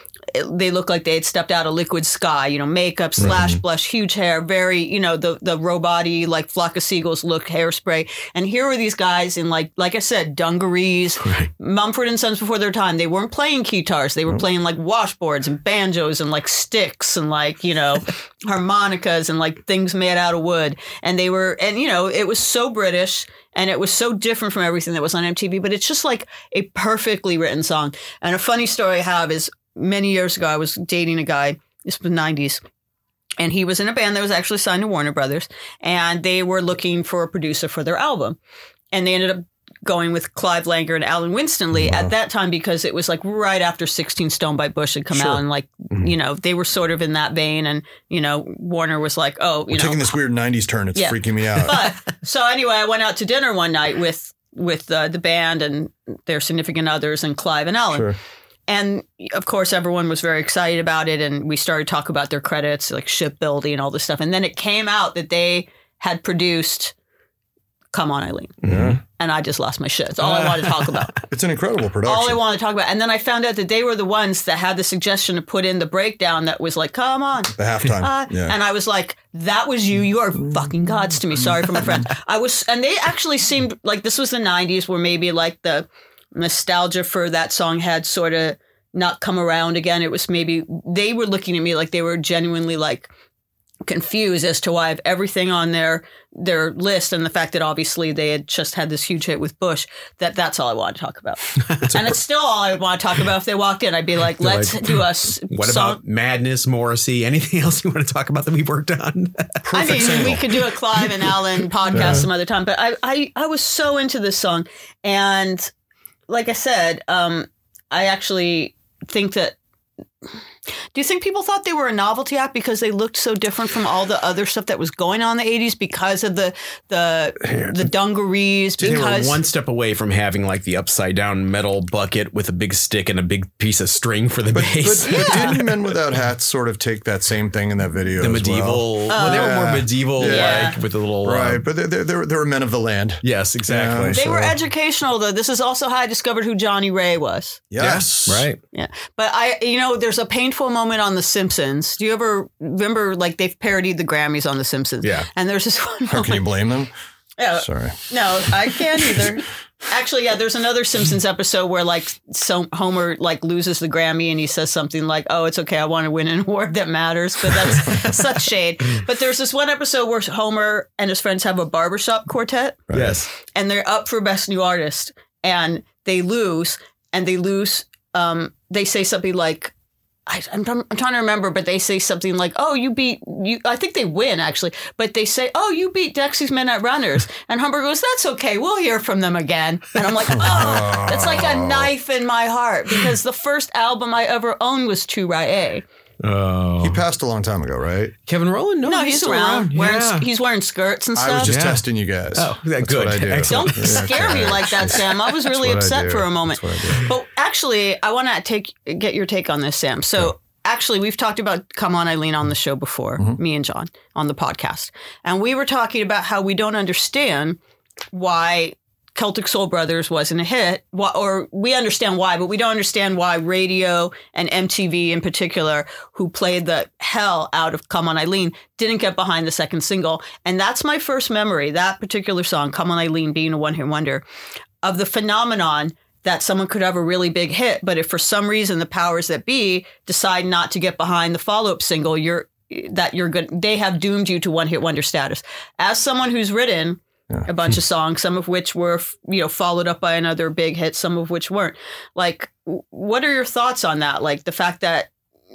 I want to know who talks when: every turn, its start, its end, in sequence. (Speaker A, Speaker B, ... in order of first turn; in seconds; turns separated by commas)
Speaker A: 0.3-32.6, Speaker B: 3.2-3.6, Speaker C: 11.2-11.5, Speaker A: 33.4-38.4, Speaker A: 38.9-50.1, Speaker B: 41.8-42.1, Speaker B: 49.7-51.8, Speaker A: 50.9-58.1, Speaker B: 57.9-58.2, Speaker A: 58.7-66.9, Speaker A: 67.9-68.6, Speaker C: 68.6-69.0, Speaker B: 68.6-69.0, Speaker A: 69.2-71.1, Speaker C: 70.2-70.9, Speaker B: 71.3-72.4, Speaker A: 72.0-93.1, Speaker B: 77.5-78.5, Speaker A: 93.8-106.0, Speaker C: 104.4-110.4, Speaker B: 109.6-110.4, Speaker A: 109.7-115.7, Speaker C: 111.9-112.2, Speaker B: 111.9-112.3, Speaker A: 116.3-119.5, Speaker A: 120.9-129.4, Speaker C: 128.8-135.7, Speaker B: 134.5-144.6, Speaker A: 135.1-135.6, Speaker C: 138.2-141.6, Speaker A: 139.1-139.6, Speaker A: 140.2-140.7, Speaker C: 143.2-144.2, Speaker A: 144.1-147.6, Speaker B: 147.7-148.5, Speaker C: 147.8-148.6, Speaker A: 148.7-156.5, Speaker B: 156.1-156.9, Speaker A: 157.4-172.8, Speaker B: 157.6-158.1, Speaker B: 172.9-173.2, Speaker C: 172.9-173.3, Speaker A: 173.4-179.7, Speaker A: 180.3-195.8, Speaker B: 190.3-191.9, Speaker C: 196.2-197.0, Speaker B: 196.8-198.1, Speaker C: 198.3-200.3, Speaker A: 198.8-201.5, Speaker B: 201.2-207.1, Speaker C: 201.4-204.9, Speaker A: 203.4-217.6, Speaker A: 218.1-234.2, Speaker A: 234.8-255.1